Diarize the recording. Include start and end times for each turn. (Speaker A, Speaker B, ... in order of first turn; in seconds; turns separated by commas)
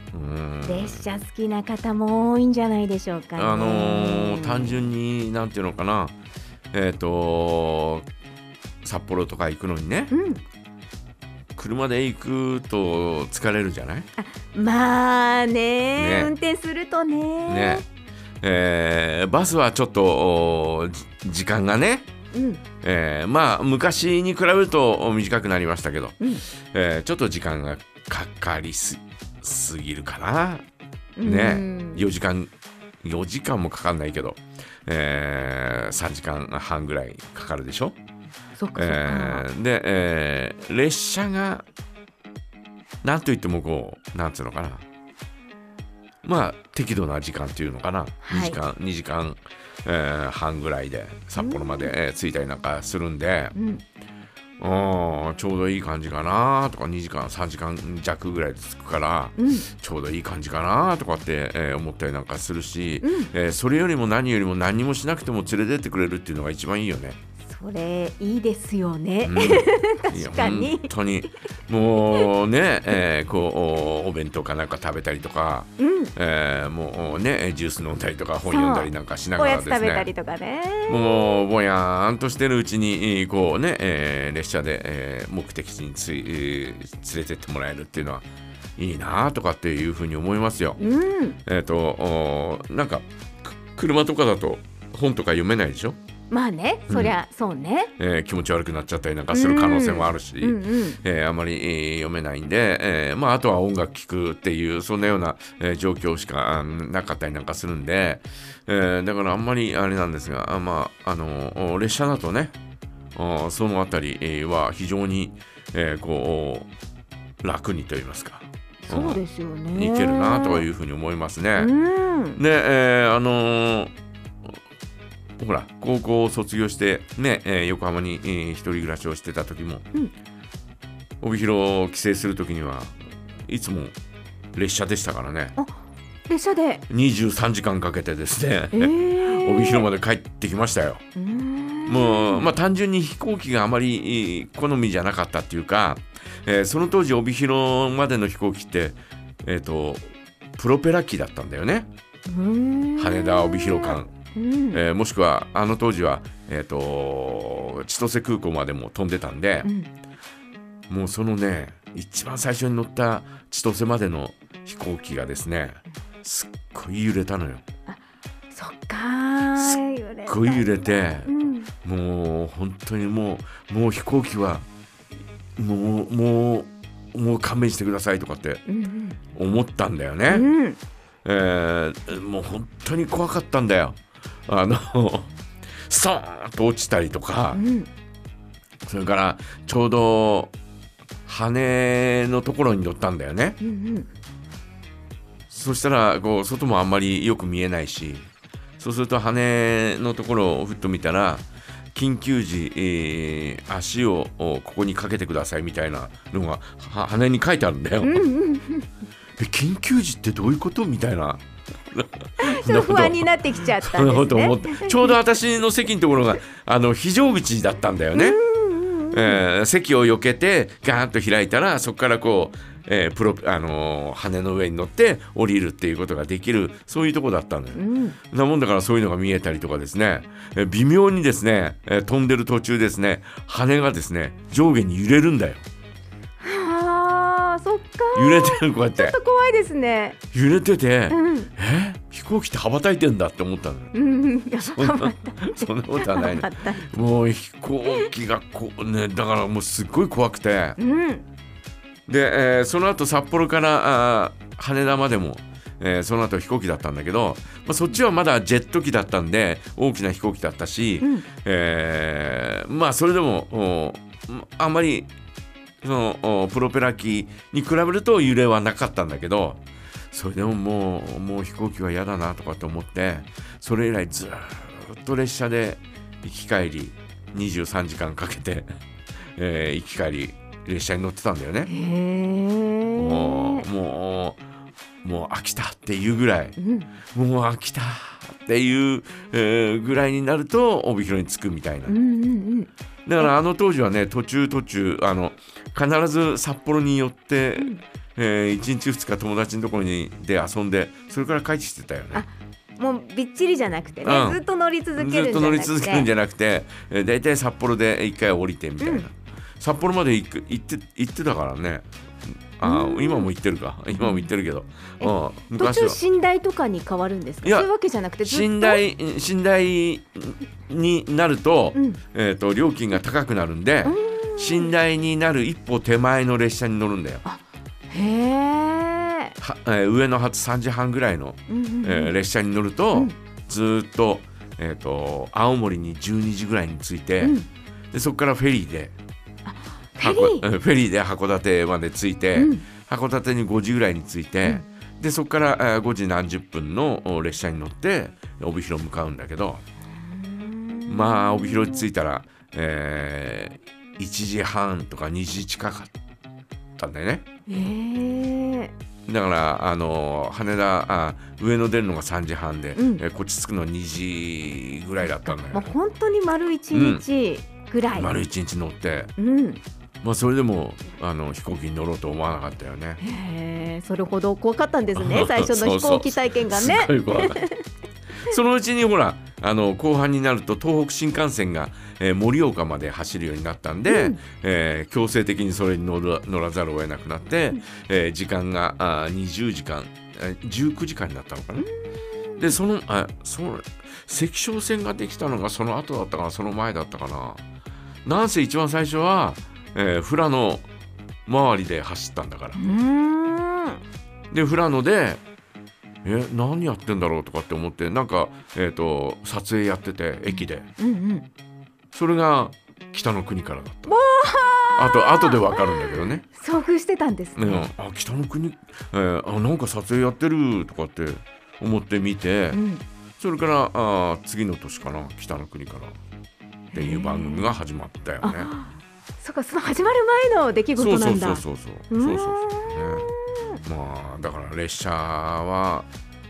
Speaker A: 0.1-1.1, Speaker B: 0.7-4.8, Speaker A: 3.4-6.1, Speaker A: 6.7-8.1, Speaker A: 8.8-10.1, Speaker B: 10.1-10.4, Speaker A: 11.6-14.1, Speaker B: 14.2-17.8, Speaker A: 15.9-16.3, Speaker A: 17.5-17.8, Speaker A: 18.4-22.1, Speaker B: 22.3-22.6, Speaker A: 22.8-30.6, Speaker B: 26.2-26.4, Speaker B: 31.2-32.1, Speaker A: 31.2-32.5, Speaker A: 33.0-38.0, Speaker B: 38.6-39.5, Speaker A: 38.7-41.6, Speaker A: 43.0-44.8, Speaker A: 46.2-53.5, Speaker B: 48.2-48.6, Speaker B: 51.4-51.9, Speaker B: 53.5-53.8, Speaker A: 54.6-67.2, Speaker B: 59.4-59.7, Speaker B: 63.0-63.3, Speaker B: 67.5-70.9, Speaker A: 69.2-80.1, Speaker B: 75.8-76.1, Speaker B: 78.5-81.4, Speaker A: 80.9-88.2, Speaker A: 88.8-90.8, Speaker B: 90.8-91.4, Speaker A: 91.5-96.0, Speaker B: 96.3-97.9, Speaker A: 96.9-97.2, Speaker A: 98.0-112.5, Speaker B: 99.3-101.0, Speaker A: 113.1-116.7, Speaker A: 117.4-119.2, Speaker B: 118.8-120.6, Speaker A: 119.7-121.7, Speaker B: 121.6-122.4, Speaker A: 122.3-123.9, Speaker A: 125.4-129.8, Speaker A: 131.2-133.9, Speaker A: 134.5-135.6, Speaker B: 136.3-136.8, Speaker A: 136.9-141.0, Speaker B: 138.7-139.9, Speaker B: 141.2-142.5, Speaker A: 141.9-151.9, Speaker B: 152.2-154.8, Speaker A: 153.0-154.1, Speaker A: 154.7-159.7, Speaker B: 159.6-159.9, Speaker A: 160.9-167.6, Speaker B: 168.5-171.7, Speaker A: 169.6-174.6, Speaker A: 175.6-178.6, Speaker B: 178.7-179.2, Speaker A: 179.3-180.5, Speaker B: 180.3-180.8, Speaker A: 181.2-187.6, Speaker B: 187.5-187.9, Speaker A: 188.8-190.5, Speaker A: 191.2-193.6, Speaker B: 193.6-194.1, Speaker A: 195.5-208.2, Speaker B: 208.0-208.9, Speaker A: 209.4-218.4, Speaker B: 212.4-215.2, Speaker B: 218.1-219.4, Speaker A: 219.1-235.6, Speaker B: 227.7-228.2, Speaker B: 236.4-240.2, Speaker A: 238.1-239.2, Speaker A: 240.3-243.9, Speaker B: 241.1-241.5, Speaker B: 243.9-246.9, Speaker A: 244.6-250.8, Speaker B: 250.8-251.2, Speaker A: 252.1-265.1, Speaker B: 261.0-261.2, Speaker A: 265.8-278.7, Speaker A: 279.3-281.7, Speaker B: 281.7-283.7, Speaker A: 283.0-284.4, Speaker A: 285.0-292.0, Speaker B: 286.6-286.9, Speaker B: 291.9-293.3, Speaker A: 293.1-302.2, Speaker B: 297.6-297.8, Speaker B: 302.1-306.1, Speaker A: 304.0-304.4, Speaker A: 305.0-316.0, Speaker B: 308.8-309.1, Speaker B: 312.6-313.3, Speaker B: 313.9-314.3, Speaker B: 315.0-318.8, Speaker A: 317.4-317.7, Speaker A: 318.2-327.2, Speaker B: 321.7-322.0, Speaker B: 323.8-324.7, Speaker B: 327.2-329.4, Speaker A: 329.4-337.4, Speaker B: 331.5-332.1, Speaker B: 337.2-337.5, Speaker A: 337.9-338.9, Speaker B: 339.4-340.4, Speaker A: 340.0-349.6, Speaker B: 342.3-342.6, Speaker B: 350.0-351.9, Speaker A: 350.9-355.9, Speaker A: 356.8-357.2, Speaker B: 357.5-358.7, Speaker A: 359.1-365.7, Speaker B: 362.8-363.0, Speaker B: 365.1-368.2, Speaker A: 366.7-367.0, Speaker A: 367.9-369.1, Speaker B: 369.2-369.6, Speaker A: 370.0-373.0, Speaker B: 373.0-377.6, Speaker A: 374.9-377.4, Speaker A: 378.2-391.7, Speaker B: 383.9-384.2, Speaker B: 391.6-392.5, Speaker A: 392.4-397.4, Speaker A: 398.0-400.7, Speaker A: 401.3-402.6, Speaker B: 402.5-403.8, Speaker A: 404.3-405.2, Speaker A: 406.0-410.7, Speaker B: 410.3-411.3, Speaker A: 411.9-413.9, Speaker B: 413.9-417.7, Speaker A: 414.8-416.2, Speaker A: 417.3-422.6, Speaker B: 422.5-422.8, Speaker A: 423.2-426.0, Speaker B: 426.7-427.5, Speaker A: 426.7-428.5, Speaker B: 428.2-433.6, Speaker A: 430.7-433.1, Speaker A: 433.6-435.9